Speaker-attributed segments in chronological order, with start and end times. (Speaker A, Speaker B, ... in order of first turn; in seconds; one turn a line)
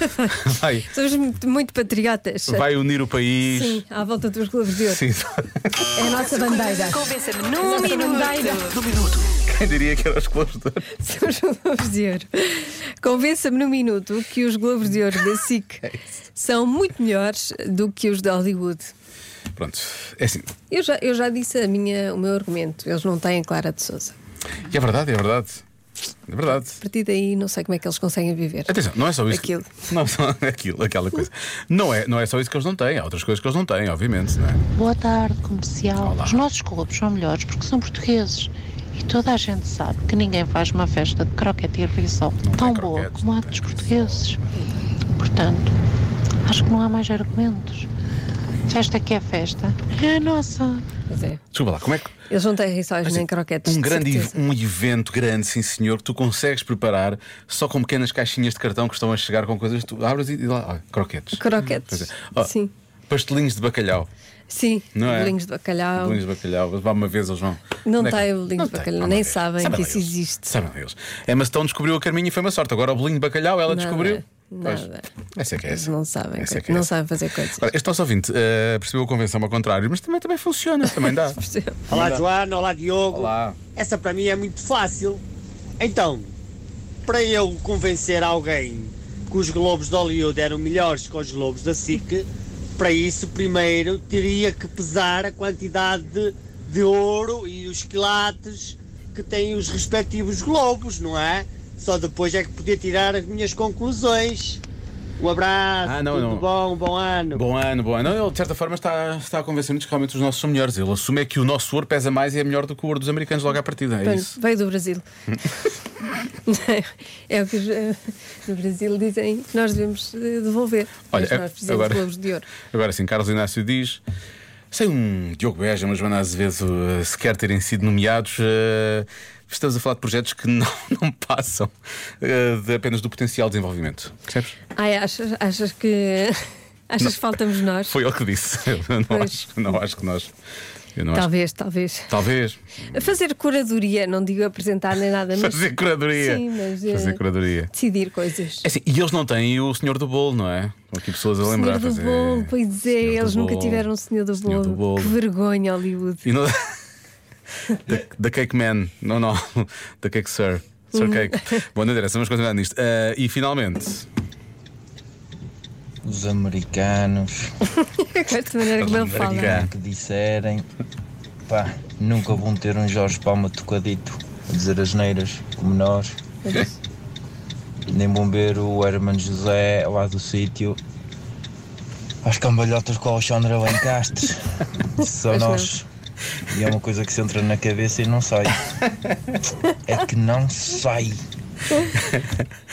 Speaker A: 0.3-0.9
Speaker B: 0.9-2.6
Speaker A: 2.5-3.8
Speaker B: 3.5-5.0
Speaker A: 4.8-6.3
Speaker B: 6.0-8.8
Speaker A: 8.6-10.9
Speaker B: 10.9-12.3
Speaker B: 13.0-15.8
Speaker B: 16.4-18.7
Speaker A: 19.6-20.5
Speaker B: 20.7-24.0
Speaker A: 24.6-25.6
Speaker A: 26.3-26.8
Speaker B: 26.8-28.8
Speaker A: 28.7-34.6
Speaker B: 29.3-29.7
Speaker C: 34.8-44.4
Speaker A: 36.0-36.5
Speaker A: 42.4-44.5
Speaker C: 45.1-45.7
Speaker C: 46.4-47.9
Speaker C: 48.7-50.9
Speaker B: 51.1-51.4
Speaker A: 51.5-52.2
Speaker B: 52.3-54.5
Speaker A: 53.0-62.5
Speaker B: 61.4-62.7
Speaker A: 63.1-64.1
Speaker B: 64.5-66.2
Speaker A: 64.9-65.4
Speaker A: 66.0-76.9
Speaker B: 67.8-70.5
Speaker B: 73.7-75.1
Speaker B: 75.7-77.7
Speaker A: 77.6-82.2
Speaker B: 80.8-81.8
Speaker D: 81.9-85.2
Speaker A: 83.1-83.6
Speaker D: 85.8-86.3
Speaker D: 87.1-104.6
Speaker D: 105.2-107.4
Speaker A: 105.8-106.5
Speaker A: 107.3-114.4
Speaker B: 114.0-115.0
Speaker B: 116.5-117.9
Speaker B: 118.5-122.5
Speaker A: 121.1-124.0
Speaker A: 124.7-134.6
Speaker B: 134.8-136.3
Speaker B: 136.9-138.0
Speaker A: 137.0-140.3
Speaker B: 139.1-139.6
Speaker A: 140.9-141.3
Speaker B: 141.1-142.1
Speaker A: 142.1-143.2
Speaker B: 142.9-145.7
Speaker A: 145.3-147.7
Speaker B: 146.2-148.6
Speaker A: 148.6-155.2
Speaker B: 151.4-156.2
Speaker A: 156.2-156.6
Speaker A: 157.7-164.1
Speaker B: 160.9-161.6
Speaker E: 166.0-167.5
Speaker B: 168.0-169.6
Speaker A: 168.6-169.7
Speaker E: 169.4-170.7
Speaker E: 171.5-176.1
Speaker B: 176.4-176.8
Speaker E: 177.9-180.8
Speaker E: 182.2-185.9
Speaker B: 185.3-185.7
Speaker E: 186.5-188.7
Speaker E: 189.9-191.2
Speaker A: 191.8-192.5